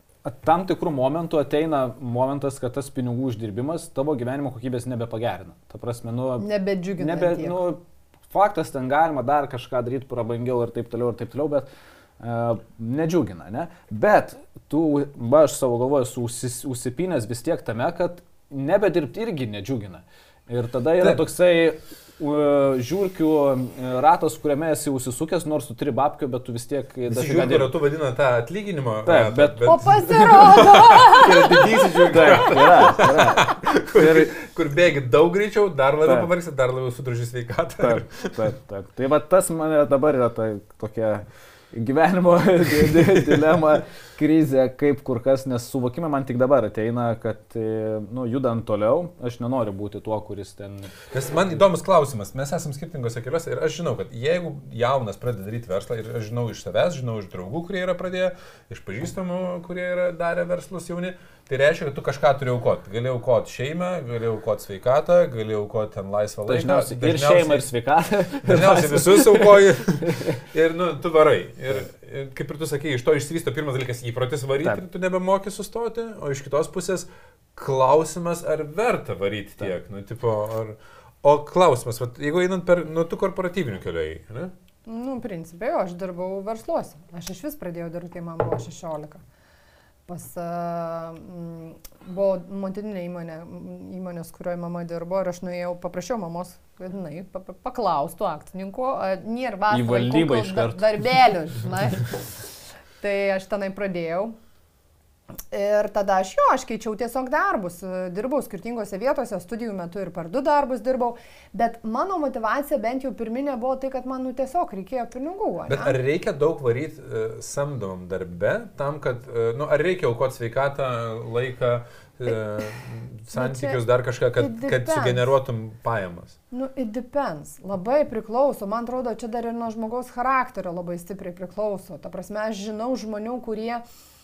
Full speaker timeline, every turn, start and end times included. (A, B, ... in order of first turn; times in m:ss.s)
0:00.2-0:11.7 A
0:06.4-0:07.6 B
0:12.2-0:27.7 A
0:27.1-0:38.5 C
0:29.0-0:30.1 A
0:29.6-0:32.4 B
0:32.1-0:34.4 A
0:36.0-0:36.3 A
0:37.8-0:50.9 A
0:42.8-0:43.6 C
0:51.1-1:07.6 C
1:06.4-1:10.4 A
1:08.4-1:24.5 C
1:24.9-1:29.2 B
1:30.1-1:42.2 B
1:39.7-1:41.0 A
1:43.0-1:44.4 B
1:45.5-1:56.0 B
1:55.7-2:06.4 C
2:03.3-2:03.8 B
2:04.4-2:05.2 B
2:06.5-2:13.8 B